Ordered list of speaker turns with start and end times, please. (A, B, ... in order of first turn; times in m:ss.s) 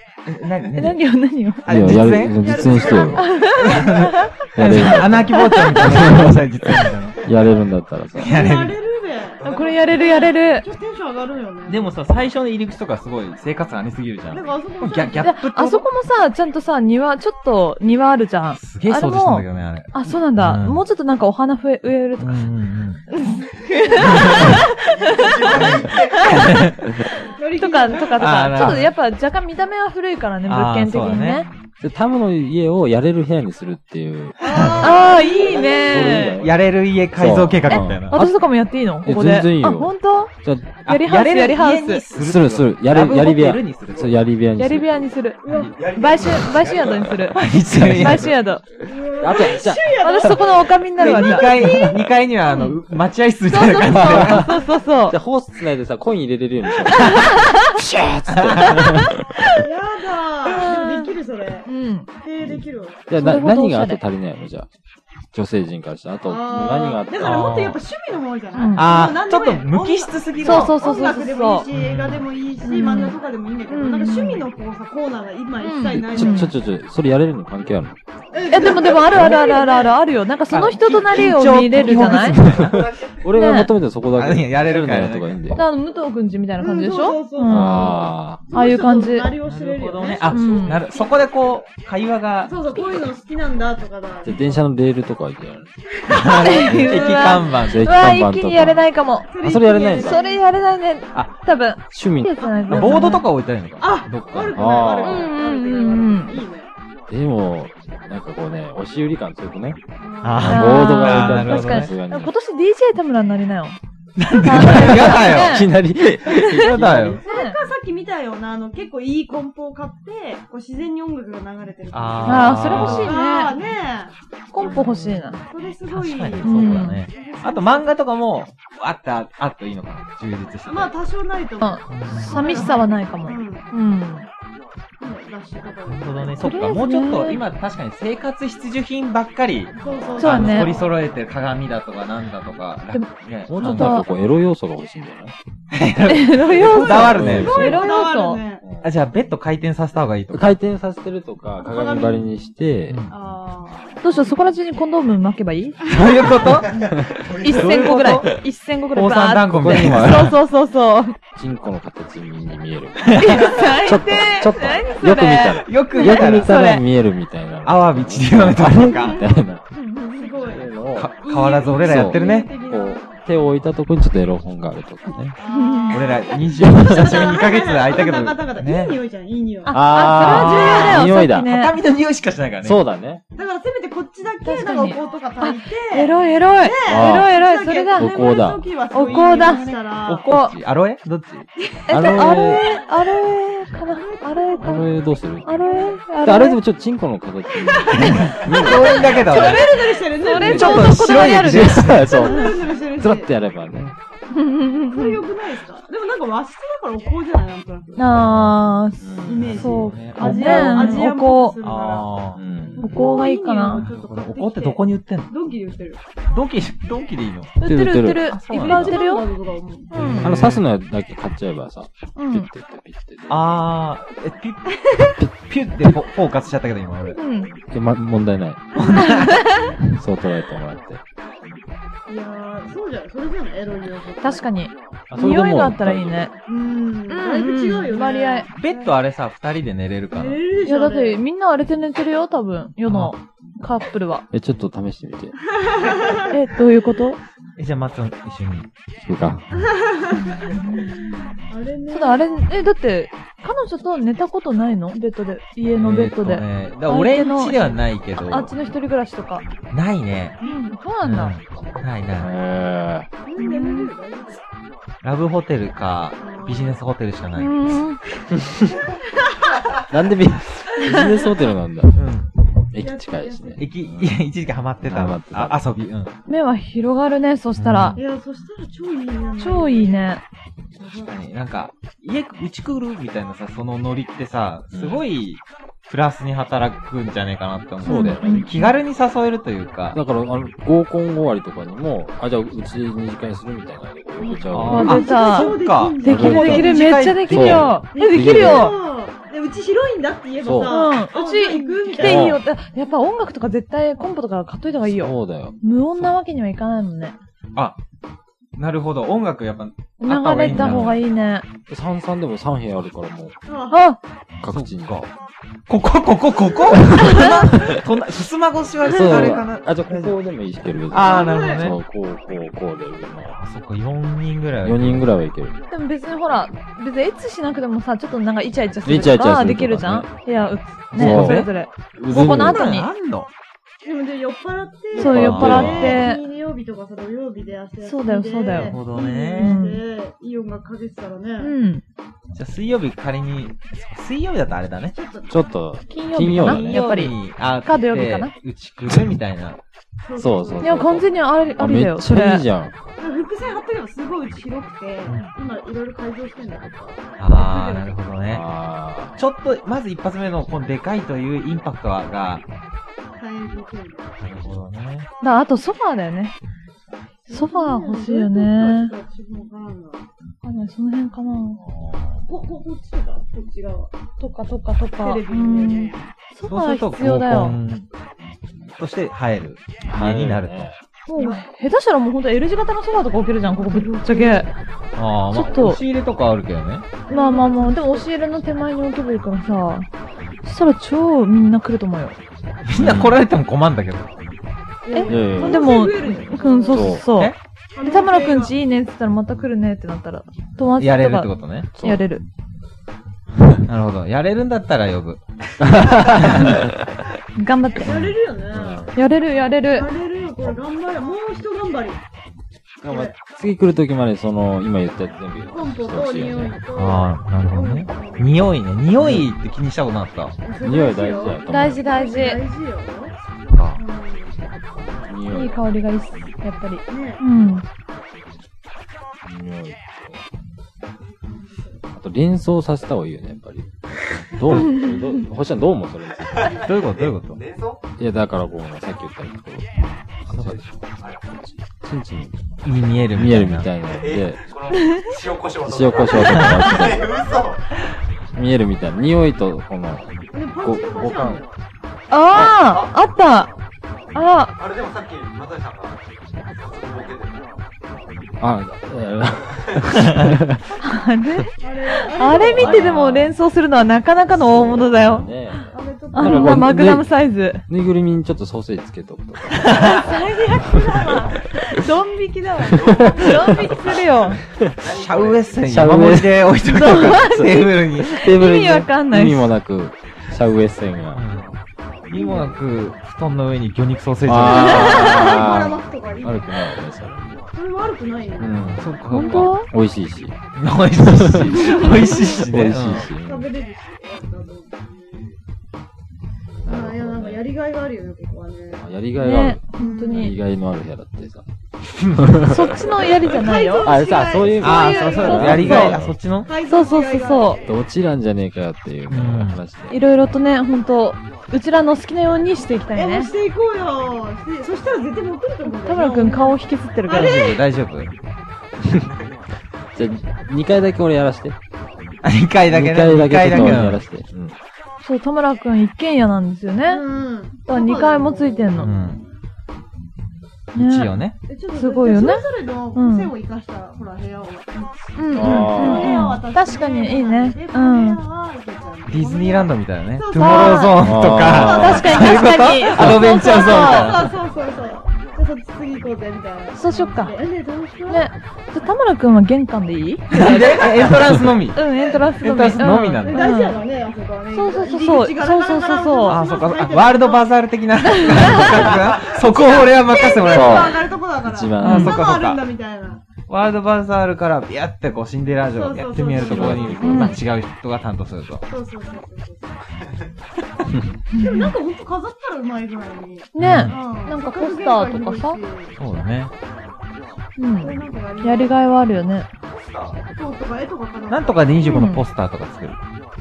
0:00.2-0:01.0 A
0:00.8-0:01.6 B
0:01.6-0:02.6 A
0:01.7-0:03.2 C
0:02.0-0:03.8 D
0:02.4-0:03.3 E
0:03.2-0:04.3 B
0:03.5-0:07.2 A
0:04.6-0:08.4 C
0:05.3-0:05.9 B
0:08.2-0:08.8 A
0:08.3-0:11.9 E
0:09.4-0:09.9 D
0:09.4-0:10.7 B
0:11.7-0:15.9 A
0:14.3-0:15.3 E
0:15.2-0:22.4 B
0:18.6-0:20.8 A
0:22.2-0:23.0 A
0:23.1-0:26.5 B
0:24.0-0:24.6 A
0:24.9-0:26.7 D
0:25.5-0:26.8 A
0:27.4-0:28.5 E
0:27.6-0:31.5 B
0:28.2-0:28.9 A
0:30.5-0:31.5 A
0:31.8-0:34.4 C
0:34.4-0:36.2 E
0:34.4-0:34.8 A
0:34.8-0:36.4 B
0:35.5-0:36.5 D
0:35.9-0:36.6 C
0:36.4-0:38.2 A
0:37.1-0:38.4 C
0:37.7-0:40.3 B
0:39.0-0:40.7 C
0:40.8-0:42.0 B
0:40.8-0:44.2 A
0:42.1-0:45.1 C
0:43.9-0:44.2 D
0:44.6-0:48.7 B
0:45.4-0:45.8 E
0:45.5-0:47.3 D
0:47.3-0:48.3 A
0:47.8-0:48.2 C
0:48.8-0:51.7 E
0:49.2-0:50.3 C
0:50.0-0:51.8 B
0:51.0-0:54.5 A
0:53.5-0:55.2 B
0:53.9-0:54.5 C
0:55.1-0:59.7 C
0:57.1-0:57.7 B
0:58.3-0:58.8 A
0:59.6-1:01.7 E
1:00.6-1:01.1 B
1:01.7-1:02.1 B
1:02.2-1:03.0 E
1:02.4-1:04.7 C
1:03.1-1:04.0 B
1:05.3-1:07.8 C
1:06.2-1:16.5 E
1:07.2-1:07.8 A
1:08.5-1:08.9 B
1:08.7-1:10.8 A
1:10.4-1:11.7 B
1:11.7-1:12.2 A
1:12.6-1:14.5 B
1:15.6-1:16.5 B
1:15.9-1:18.0 C
1:18.3-1:20.0 E
1:18.5-1:22.4 B
1:19.1-1:19.4 C
1:20.5-1:22.8 A
1:21.8-1:25.6 C
1:22.5-1:23.3 D
1:23.3-1:23.7 B
1:24.1-1:25.6 A
1:25.6-1:29.4 B
1:26.6-1:30.8 E
1:27.5-1:28.4 C
1:29.4-1:32.6 A
1:30.2-1:30.8 B
1:30.9-1:31.6 D
1:32.4-1:34.5 E
1:32.8-1:33.0 C
1:34.2-1:35.7 C
1:36.1-1:36.8 E
1:36.1-1:37.9 A
1:36.2-1:39.3 B
1:36.7-1:40.2 C
1:39.3-1:40.4 E
1:39.9-1:43.2 B
1:41.9-1:42.4 C
1:42.4-1:43.2 E
1:42.7-1:44.8 A
1:43.8-1:46.7 E
1:44.5-1:45.3 C
1:45.0-1:46.4 B
1:47.1-1:49.8 C
1:50.0-1:50.5 E
1:50.2-1:51.9 A
1:50.4-1:52.3 C
1:50.4-1:53.8 B
1:54.2-1:55.7 A
1:54.4-1:55.7 B
1:54.6-1:57.2 C
1:56.2-1:56.7 B
1:56.6-1:57.2 A
1:57.2-2:04.9 E
1:57.3-1:57.6 B
2:01.9-2:03.2 A
2:02.2-2:03.5 B
2:04.5-2:05.4 B
2:04.6-2:05.2 A
2:05.5-2:07.9 E
2:05.9-2:10.9 A
2:06.4-2:07.0 B
2:10.7-2:13.7 E
2:11.6-2:14.3 B
2:11.9-2:12.6 A
2:15.0-2:16.6 E
2:15.9-2:24.0 A
2:16.4-2:17.4 B
2:19.7-2:20.9 E
2:19.8-2:20.7 C
2:20.2-2:20.8 B
2:22.9-2:24.1 B
2:23.5-2:25.3 C
2:25.7-2:27.7 A
2:26.1-2:28.4 B
2:26.6-2:28.0 C
2:27.3-2:28.6 E
2:28.8-2:30.6 A
2:30.3-2:33.0 C
2:31.6-2:32.3 E
2:32.9-2:33.1 A
2:33.1-2:34.3 E
2:34.0-2:35.8 B
2:35.8-2:36.4 E
2:35.9-2:36.7 A
2:36.6-2:37.9 D
2:36.7-2:41.2 B
2:37.4-2:38.3 A
2:38.9-2:40.4 A
2:39.5-2:40.3 C
2:41.4-2:49.6 C
2:43.0-2:43.6 A
2:43.2-2:46.8 B
2:45.6-2:46.6 A
2:47.6-2:49.2 A
2:48.8-2:50.7 E
2:50.4-2:51.1 C
2:50.9-2:52.5 A
2:51.2-2:53.1 E
2:51.8-2:55.4 C
2:55.4-3:01.0 E
2:55.4-2:56.1 B
2:55.9-2:59.0 A
2:56.6-2:57.3 C
2:59.7-3:01.7 B
2:59.7-3:02.8 A
3:00.0-3:01.5 C
3:02.6-3:03.2 C
3:03.3-3:10.3 E
3:04.4-3:08.2 B
3:06.8-3:07.3 C
3:07.9-3:08.7 C
3:08.9-3:10.5 B
3:10.1-3:11.5 A
3:11.6-3:13.2 E
3:11.9-3:14.9 B
3:11.9-3:12.7 C
3:13.9-3:16.0 E
3:14.6-3:15.5 C
3:15.4-3:16.6 B
3:16.2-3:19.4 C
3:17.6-3:21.2 E
3:17.9-3:19.8 A
3:19.3-3:22.5 B
3:20.3-3:22.1 A
3:21.4-3:23.9 C
3:22.0-3:23.3 E
3:24.3-3:25.2 B
3:24.9-3:28.3 E
3:28.0-3:31.6 B
3:29.0-3:29.5 C
3:29.2-3:31.1 A
3:29.3-3:32.1 E
3:30.4-3:30.9 C
3:31.6-3:32.4 A
3:32.3-3:32.9 C
3:32.7-3:36.0 E
3:32.8-3:33.9 B
3:33.8-3:35.3 A
3:36.3-3:37.6 A
3:37.6-3:39.3 B
3:37.6-3:38.9 C
3:38.3-3:38.9 A
3:38.6-3:40.2 E
3:39.9-3:40.3 B
3:40.0-3:40.6 A
3:40.2-3:43.6 C
3:42.2-3:42.5 B
3:43.3-3:44.8 A
3:44.9-3:45.2 E
3:45.3-3:47.2 A
3:47.2-3:47.5 B
3:47.7-3:49.0 C
3:48.7-3:49.4 A
3:48.8-3:49.1 E
3:49.0-3:49.7 B
3:49.9-3:51.0 C
3:52.1-3:54.5 E
3:54.2-3:56.3 B
3:55.1-3:56.3 C
3:56.5-3:58.9 E
3:57.1-3:58.5 B
3:58.5-4:00.4 A
4:00.1-4:01.2 E
4:00.6-4:04.3 B
4:02.8-4:03.1 A
4:04.3-4:05.4 C
4:05.6-4:06.2 E
4:06.3-4:07.2 B
4:07.6-4:08.7 A
4:09.0-4:09.4 C
4:09.6-4:12.4 E
4:10.2-4:11.0 B
4:11.9-4:19.4 B
4:15.8-4:18.5 A
4:19.7-4:20.4 A
4:20.4-4:21.3 B
4:21.0-4:22.3 A
4:22.2-4:23.1 C
4:23.2-4:24.4 E
4:23.4-4:23.9 B
4:25.0-4:27.6 A
4:26.2-4:26.8 E
4:27.4-4:28.0 B
4:28.9-4:29.7 E
4:29.9-4:31.9 C
4:31.9-4:32.3 A
4:32.7-4:34.2 C
4:32.8-4:33.7 E
4:33.6-4:36.1 A
4:34.8-4:35.6 C
4:36.3-4:38.0 B
4:37.6-4:38.0 A
4:38.0-4:40.1 E
4:39.4-4:40.2 B
4:40.8-4:41.2 E
4:41.0-4:50.0 A
4:44.7-4:45.0 C
4:47.8-4:48.5 C
4:47.8-4:48.7 B
4:49.9-4:55.0 C
4:54.2-4:56.9 E
4:54.5-4:57.8 A
4:54.7-4:58.8 B
4:56.1-4:58.7 C
4:57.9-5:02.4 E
5:00.4-5:00.8 C
5:00.7-5:07.2 B
5:02.0-5:02.4 C
5:04.8-5:05.6 C
5:08.6-5:11.0 A
5:10.0-5:11.4 B
5:10.5-5:11.0 C
5:11.7-5:13.3 C
5:13.5-5:13.8 E
5:13.7-5:14.0 B
5:14.4-5:15.0 C
5:14.5-5:15.1 A
5:15.7-5:20.2 A
5:17.0-5:17.3 B
5:18.8-5:23.4 C
5:20.9-5:21.8 A
5:21.0-5:21.7 E
5:23.3-5:25.1 A
5:24.6-5:25.6 C
5:25.7-5:32.9 B
5:28.8-5:30.1 C
5:30.9-5:32.7 C
5:30.9-5:31.5 A
5:32.1-5:33.3 A
5:33.8-5:41.6 E
5:35.0-5:36.2 B
5:35.0-5:36.0 C
5:35.1-5:35.9 A
5:37.8-5:38.8 B
5:38.5-5:39.6 A
5:39.4-5:39.8 B
5:41.4-5:41.8 B
5:42.3-5:45.0 A
5:44.9-5:45.4 E
5:45.3-5:46.8 C
5:45.9-5:48.3 B
5:46.3-5:49.6 A
5:50.0-5:51.0 E
5:50.2-5:52.7 C
5:50.6-5:52.4 B
5:53.0-5:57.9 E
5:57.2-5:58.4 A
5:58.3-5:59.2 C
5:59.2-6:02.4 A
6:03.2-6:04.3 E
6:04.2-6:05.1 A
6:05.2-6:06.3 B
6:07.3-6:10.1 E
6:07.3-6:08.9 B
6:10.4-6:11.6 B
6:11.6-6:12.2 A
6:12.3-6:13.9 E
6:14.2-6:17.6 B
6:15.0-6:16.1 E
6:16.4-6:17.9 A
6:18.7-6:20.7 A
6:19.8-6:20.8 C
6:21.1-6:24.5 B
6:21.2-6:21.4 E
6:23.5-6:24.5 E
6:25.0-6:26.9 A
6:25.3-6:25.8 B
6:27.1-6:28.1 E
6:27.1-6:29.9 B
6:30.4-6:32.2 B
6:32.7-6:34.1 A
6:32.7-6:33.2 C
6:34.8-6:37.0 E
6:34.9-6:42.2 B
6:35.1-6:35.8 C
6:36.7-6:37.1 C
6:37.7-6:38.5 E
6:40.8-6:41.7 A
6:41.8-6:42.0 C
6:43.7-6:45.2 A
6:45.6-6:46.7 C
6:45.8-6:46.6 A
6:47.4-6:48.0 B
6:47.8-6:48.9 E
6:48.5-6:48.9 C
6:48.9-6:49.9 B
6:49.7-6:52.0 E
6:52.8-6:53.2 E
6:52.8-6:56.6 C
6:55.5-6:58.4 E
6:56.7-7:00.4 A
6:59.0-6:59.3 C
7:00.4-7:03.2 E
7:00.6-7:01.8 C
7:01.5-7:02.4 B
7:03.5-7:03.8 A
7:03.8-7:04.4 E
7:05.1-7:05.6 C
7:05.3-7:07.6 B
7:06.9-7:07.2 E
7:09.2-7:10.2 C
7:11.2-7:11.8 E
7:11.9-7:16.6 C
7:14.5-7:14.9 B
7:16.2-7:17.8 D
7:16.6-7:17.4 A
7:18.0-7:19.7 C
7:20.3-7:20.7 A
7:20.4-7:21.2 D
7:21.3-7:22.4 C
7:22.6-7:23.7 A
7:23.2-7:24.4 C
7:23.8-7:27.7 D
7:24.7-7:25.1 B
7:25.6-7:27.2 C
7:28.3-7:30.1 C
7:30.3-7:31.5 E
7:30.6-7:31.4 C
7:32.1-7:33.5 B
7:32.4-7:33.0 D
7:34.1-7:34.5 B
7:34.6-7:36.0 D
7:36.5-7:37.6 D
7:38.4-7:40.6 C
7:40.8-7:45.6 B
7:41.6-7:43.0 E
7:42.4-7:43.4 C
7:44.3-7:45.6 C
7:45.7-7:46.8 E
7:46.1-7:47.6 B
7:46.2-7:47.1 C
7:47.7-7:51.2 C
7:49.7-7:54.4 B
7:49.7-7:49.9 A
7:50.5-7:51.8 E
7:52.3-7:53.7 E
7:52.7-7:54.0 D
7:52.8-7:53.5 C
7:54.6-7:55.7 D
7:54.9-7:58.2 A
7:55.7-8:01.2 C
7:56.7-7:59.5 B
8:01.2-8:01.6 A
8:02.1-8:05.0 A
8:02.1-8:02.6 E
8:04.2-8:07.5 C
8:04.5-8:06.8 E
8:04.5-8:05.5 B
8:07.6-8:08.8 E
8:08.4-8:10.3 C
8:08.7-8:09.6 A
8:09.1-8:09.7 B
8:10.6-8:13.1 A
8:11.0-8:13.5 C
8:11.6-8:15.3 E
8:16.6-8:17.5 C
8:16.7-8:18.9 E
8:18.8-8:21.4 C
8:19.2-8:20.4 B
8:19.8-8:20.3 E
8:22.0-8:22.3 A
8:22.1-8:22.8 C
8:22.4-8:24.0 B
8:23.3-8:25.8 E
8:23.8-8:26.2 C
8:24.6-8:26.5 A
8:24.6-8:26.0 B
8:26.4-8:27.8 E
8:26.7-8:27.6 B
8:27.6-8:30.0 C
8:29.1-8:29.6 A
8:29.9-8:33.3 B
8:32.9-8:37.6 E
8:35.6-8:37.6 B
8:37.1-8:38.1 A
8:38.9-8:39.4 D
8:39.9-8:41.6 C
8:42.2-8:44.0 A
8:42.7-8:44.6 C
8:45.0-8:47.1 B
8:46.9-8:49.0 E
8:47.6-8:48.9 B
8:48.8-8:49.2 A
8:50.7-8:51.1 B
8:50.7-8:51.4 A
8:51.5-9:02.5 E
8:51.7-8:53.3 B
8:55.2-8:58.2 B
8:55.3-8:56.4 C
8:59.1-9:04.3 A
9:00.4-9:01.0 B
9:01.0-9:02.3 C
9:01.6-9:04.2 B
9:02.9-9:03.4 C
9:03.1-9:08.3 E
9:06.7-9:07.4 B
9:08.1-9:10.9 B
9:10.3-9:11.9 A
9:11.7-9:13.8 B
9:12.4-9:13.5 A
9:13.2-9:17.5 E
9:14.5-9:16.4 B
9:16.2-9:21.0 A
9:18.1-9:18.8 B
9:18.4-9:23.2 E
9:20.4-9:22.2 C
9:21.8-9:22.2 B
9:21.8-9:22.6 A
9:23.5-9:28.6 A
9:25.7-9:27.4 E
9:26.3-9:27.4 C
9:27.0-9:27.4 B
9:28.7-9:29.8 E
9:29.9-9:30.3 D
9:31.3-9:31.7 B
9:31.4-9:36.0 E
9:33.5-9:35.6 B
9:33.6-9:34.0 A
9:36.0-9:36.5 A
9:37.6-9:39.5 B
9:37.8-9:39.1 E
9:39.6-9:40.2 D
9:40.4-9:42.1 E
9:41.3-9:43.0 A
9:41.9-9:42.2 B